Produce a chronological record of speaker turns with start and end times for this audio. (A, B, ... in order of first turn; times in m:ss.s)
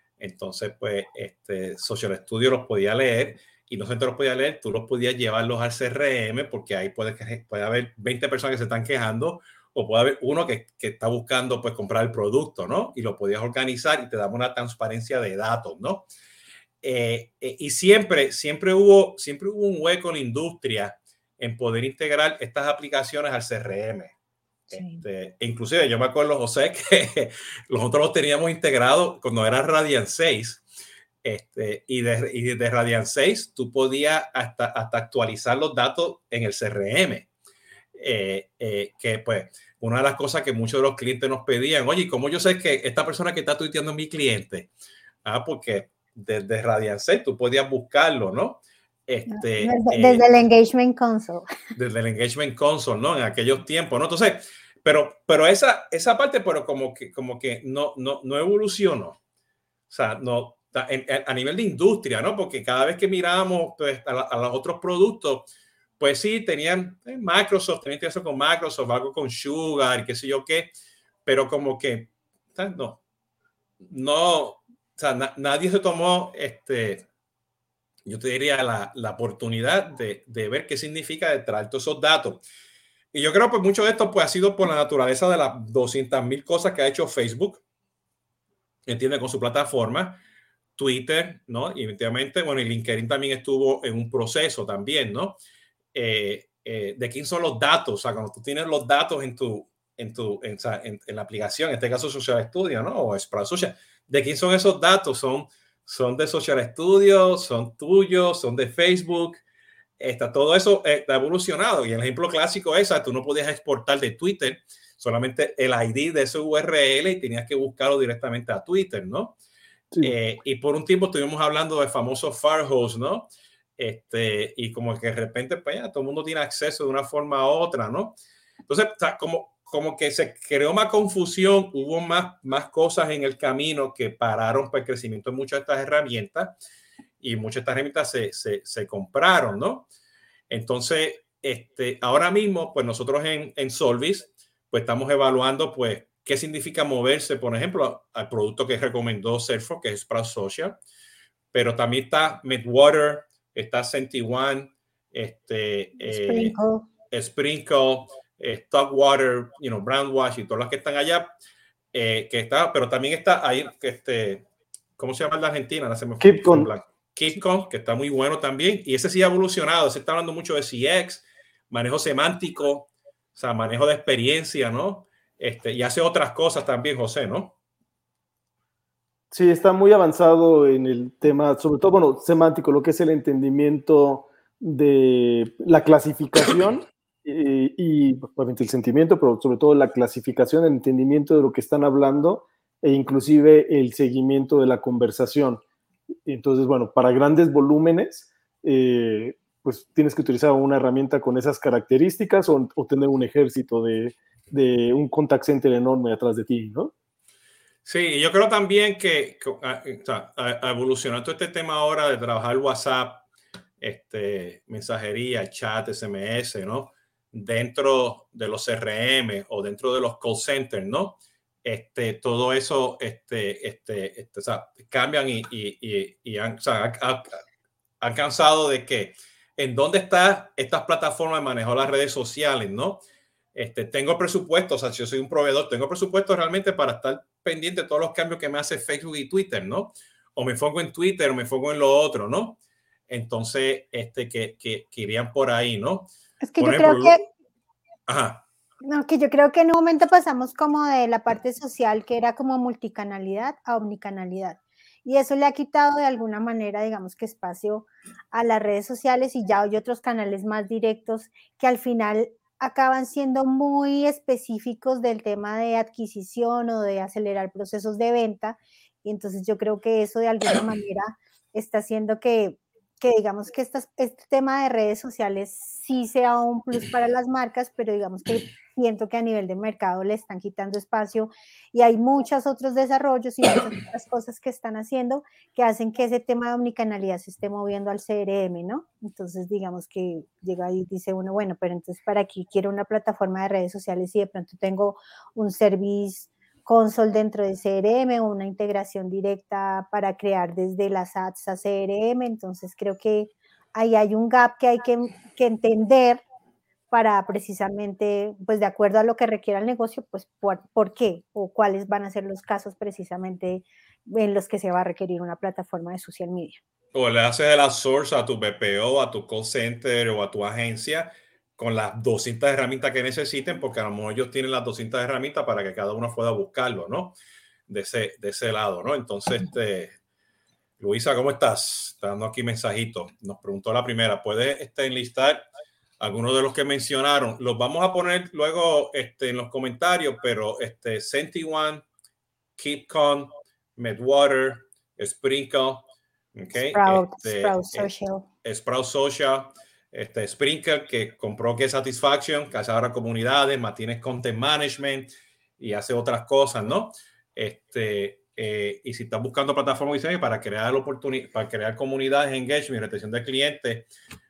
0:00.2-0:16.1 A
0:16.8-0:24.1 A
0:24.7-0:30.6 A
0:24.7-0:25.0 B
0:31.2-0:37.3 A
0:37.9-0:44.7 A
0:45.2-0:50.2 A
0:49.3-0:51.5 B
0:51.8-0:59.2 A
0:59.9-1:05.5 A
1:06.0-1:10.7 A
1:11.2-1:13.0 A
1:13.8-1:17.1 A
1:18.1-1:22.4 A
1:23.1-1:27.6 A
1:28.9-1:30.2 A
1:30.8-1:35.4 A
1:35.9-1:49.4 A
1:50.0-1:59.4 A
2:00.0-2:16.6 A
2:17.2-2:19.9 A
2:20.5-2:30.8 A
2:31.5-2:36.6 A
2:36.0-2:36.9 B
2:37.1-2:41.3 A
2:41.9-2:57.6 A
2:46.2-2:46.7 C
2:59.3-3:15.6 C
3:16.2-3:26.9 C
3:27.8-3:33.2 A
3:33.8-3:47.4 A
3:48.0-3:53.0 A
3:53.5-4:07.2 A
4:06.4-4:07.2 B
4:08.1-4:08.4 A
4:08.8-5:06.2 B
5:06.9-5:16.6 B
5:16.9-5:27.2 A
5:27.7-5:30.0 A
5:30.8-5:35.5 A
5:36.0-5:41.8 A
5:42.6-5:47.9 A
5:46.6-5:48.2 B
5:48.4-6:03.9 A